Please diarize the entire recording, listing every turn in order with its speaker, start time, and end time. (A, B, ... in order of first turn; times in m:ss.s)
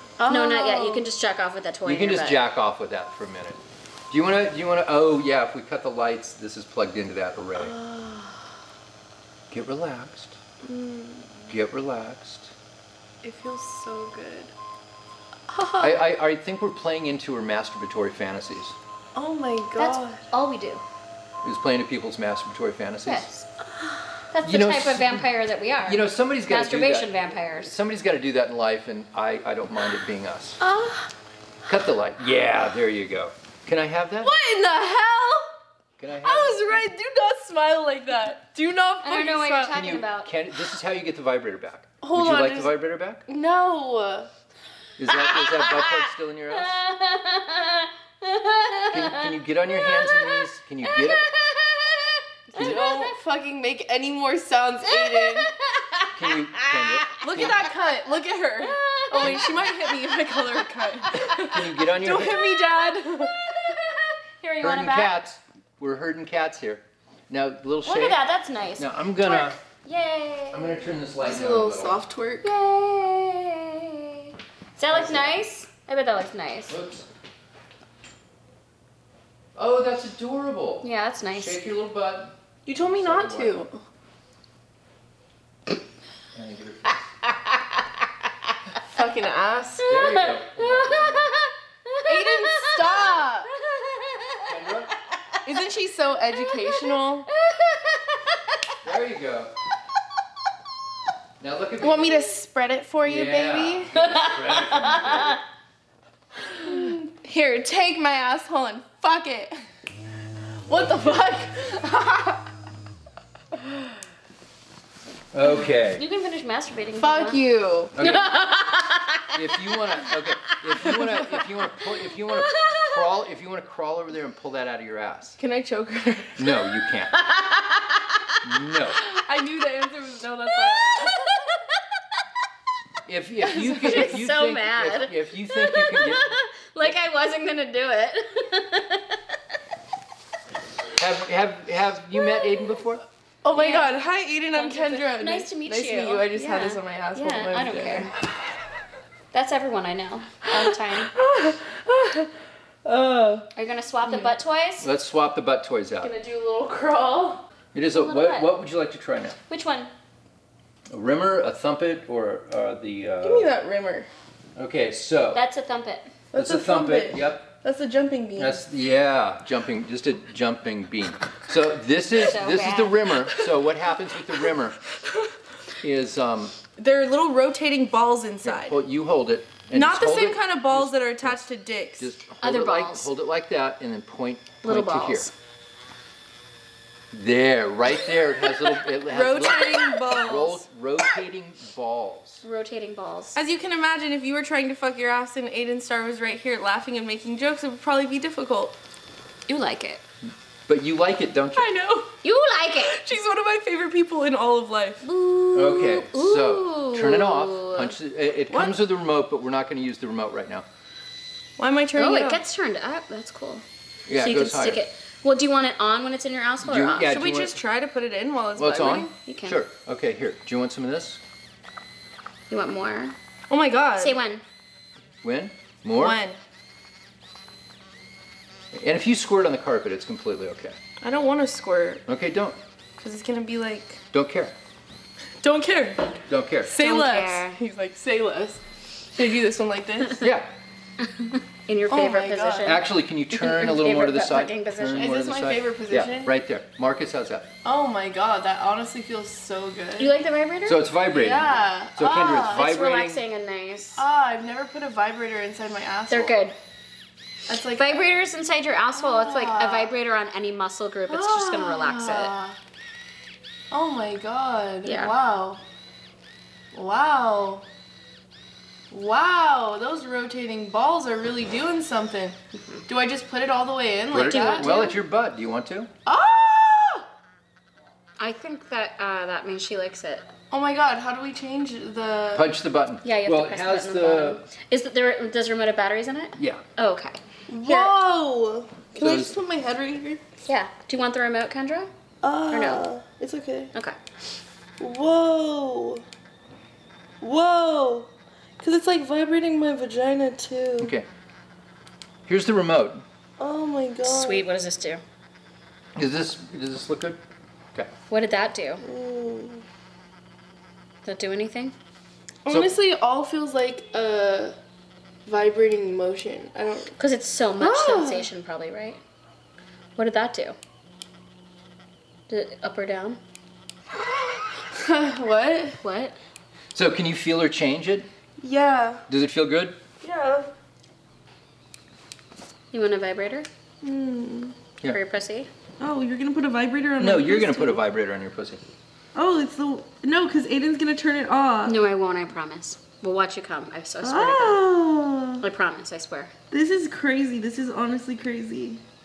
0:00.2-0:01.1 A
0:00.2-0:02.4 B
0:01.8-0:07.7 C
0:07.6-0:08.5 A
0:09.5-0:10.4 C
0:10.6-0:11.5 A
0:11.5-0:12.5 C
0:13.2-0:14.5 A
0:15.5-0:16.0 A
0:15.8-0:18.8 C
0:19.1-0:20.2 A
0:19.8-0:20.8 B
0:21.4-0:23.2 C
0:23.0-0:23.4 B
0:23.8-0:24.0 A
0:24.3-0:27.7 B
0:24.4-0:25.3 C
0:25.8-0:30.6 C
0:30.6-0:31.1 A
0:31.7-0:34.3 C
0:34.2-0:35.5 A
0:36.0-0:36.8 C
0:36.2-0:39.8 A
0:39.0-0:40.3 B
0:39.7-0:43.2 C
0:42.0-0:42.7 A
0:43.3-0:44.3 A
0:45.0-0:46.8 C
0:46.5-0:53.1 B
0:48.9-0:51.3 C
0:52.5-0:55.5 A
0:52.6-0:52.9 C
0:54.9-0:57.4 B
0:56.1-0:57.6 C
0:57.2-1:03.4 A
0:58.6-1:00.6 B
0:59.2-0:59.7 C
1:01.1-1:02.5 C
1:03.0-1:05.1 B
1:04.6-1:08.2 C
1:07.8-1:10.9 B
1:08.8-1:09.6 C
1:10.5-1:12.0 C
1:11.2-1:12.5 A
1:12.4-1:16.8 B
1:14.9-1:15.4 C
1:16.7-1:17.1 C
1:19.5-1:23.6 C
1:20.8-1:21.6 B
1:22.6-1:23.8 A
1:26.3-1:26.9 C
1:28.9-1:30.0 A
1:29.8-1:34.5 B
1:29.8-1:31.3 C
1:32.0-1:33.5 A
1:34.4-1:34.9 C
1:35.4-1:37.3 A
1:36.5-1:38.4 B
1:38.8-1:39.5 C
1:41.4-1:42.2 C
1:41.8-1:44.2 A
1:43.0-1:45.4 C
1:44.0-1:45.4 B
1:46.6-1:49.6 A
1:50.7-1:52.4 A
1:50.7-1:51.1 C
1:55.3-1:56.0 C
1:55.7-1:57.4 B
1:57.0-1:57.9 A
1:57.9-1:58.3 C
1:58.0-2:00.6 B
1:59.3-2:05.4 C
2:02.4-2:03.0 B
2:05.4-2:06.5 A
2:06.4-2:07.1 C
2:07.1-2:08.4 B
2:08.4-2:09.0 C
2:09.0-2:11.3 A
2:10.6-2:11.8 B
2:13.0-2:16.4 C
2:13.6-2:19.4 B
2:13.6-2:14.0 A
2:21.0-2:23.0 C
2:23.4-2:28.1 A
2:23.5-2:24.0 B
2:24.5-2:28.1 B
2:29.3-2:31.1 B
2:30.5-2:32.3 A
2:32.8-2:33.5 A
2:33.5-2:34.9 B
2:34.8-2:36.1 C
2:36.0-2:37.4 A
2:37.7-2:39.4 C
2:37.9-2:38.5 B
2:39.5-2:39.9 B
2:40.9-2:43.5 C
2:43.2-2:44.1 A
2:44.6-2:45.4 C
2:45.3-2:46.1 B
2:46.3-2:48.6 A
2:46.3-2:47.5 C
2:48.4-2:54.8 C
2:52.2-2:53.0 B
2:55.8-2:56.5 C
2:56.8-2:58.8 A
2:58.4-3:01.4 C
2:59.7-3:02.1 A
3:02.0-3:05.3 C
3:02.4-3:03.1 B
3:04.6-3:05.3 B
3:07.1-3:12.4 C
3:08.9-3:10.6 A
3:12.4-3:13.4 B
3:13.3-3:18.8 A
3:19.5-3:20.0 B
3:20.7-3:21.7 C
3:21.5-3:22.1 A
3:22.2-3:23.0 B
3:22.7-3:25.0 A
3:25.0-3:27.9 B
3:25.5-3:30.6 C
3:28.5-3:28.8 A
3:31.6-3:32.4 A
3:32.0-3:33.6 B
3:34.1-3:34.8 C
3:34.1-3:37.1 B
3:36.6-3:37.6 C
3:37.1-3:39.1 A
3:38.6-3:41.2 C
3:39.2-3:39.6 B
3:42.5-3:43.1 B
3:43.5-3:44.2 A
3:44.0-3:44.4 B
3:45.2-3:46.2 C
3:46.0-3:46.4 A
3:48.7-3:50.8 C
3:51.0-3:52.0 A
3:52.1-3:52.6 C
3:53.0-3:54.0 A
3:54.1-3:54.5 C
3:55.4-4:00.3 A
3:56.3-3:56.7 C
3:56.8-3:57.6 B
4:00.2-4:00.5 C
4:01.0-4:05.1 B
4:01.9-4:02.8 A
4:02.6-4:07.5 C
4:04.9-4:06.3 A
4:07.6-4:10.1 A
4:10.0-4:10.8 B
4:10.6-4:13.2 C
4:11.1-4:12.7 A
4:12.5-4:14.0 B
4:14.0-4:16.4 A
4:16.1-4:16.5 B
4:17.5-4:18.1 A
4:17.7-4:22.3 B
4:19.0-4:19.9 A
4:21.1-4:22.6 A
4:23.7-4:25.6 A
4:24.8-4:25.1 B
4:26.7-4:27.6 A
4:28.9-4:32.4 A
4:32.9-4:34.9 A
4:34.1-4:35.9 C
4:34.2-4:34.9 B
4:36.0-4:37.0 A
4:38.2-4:40.3 B
4:40.5-4:42.5 A
4:42.3-4:44.4 C
4:43.0-4:47.9 B
4:46.4-4:46.6 C
4:47.5-4:50.2 A
4:49.0-4:49.3 C
4:50.4-4:51.9 B
4:52.2-4:53.7 A
4:52.5-4:52.8 B
4:54.8-4:56.0 A
4:57.2-4:58.1 A
4:58.6-5:00.9 A
5:00.8-5:01.1 C
5:02.2-5:03.0 C
5:03.4-5:04.5 A
5:04.0-5:05.0 B
5:06.0-5:07.2 C
5:08.1-5:08.8 B
5:08.8-5:09.6 A
5:11.0-5:11.7 B
5:12.4-5:14.5 A
5:12.5-5:12.7 C
5:15.2-5:16.9 A
5:17.0-5:19.0 B
5:17.6-5:18.3 A
5:20.0-5:20.6 B
5:22.3-5:23.2 B
5:24.0-5:25.8 A
5:25.8-5:26.2 B
5:26.7-5:28.1 C
5:28.4-5:29.0 A
5:29.1-5:29.8 C
5:30.0-5:30.5 A
5:32.7-5:33.5 B
5:33.8-5:34.6 A
5:34.8-5:35.5 B
5:35.8-5:37.8 A
5:37.0-5:38.6 C
5:39.1-5:41.8 A
5:41.6-5:44.6 B
5:44.0-5:45.4 A
5:45.4-5:46.3 B
5:46.5-5:48.8 A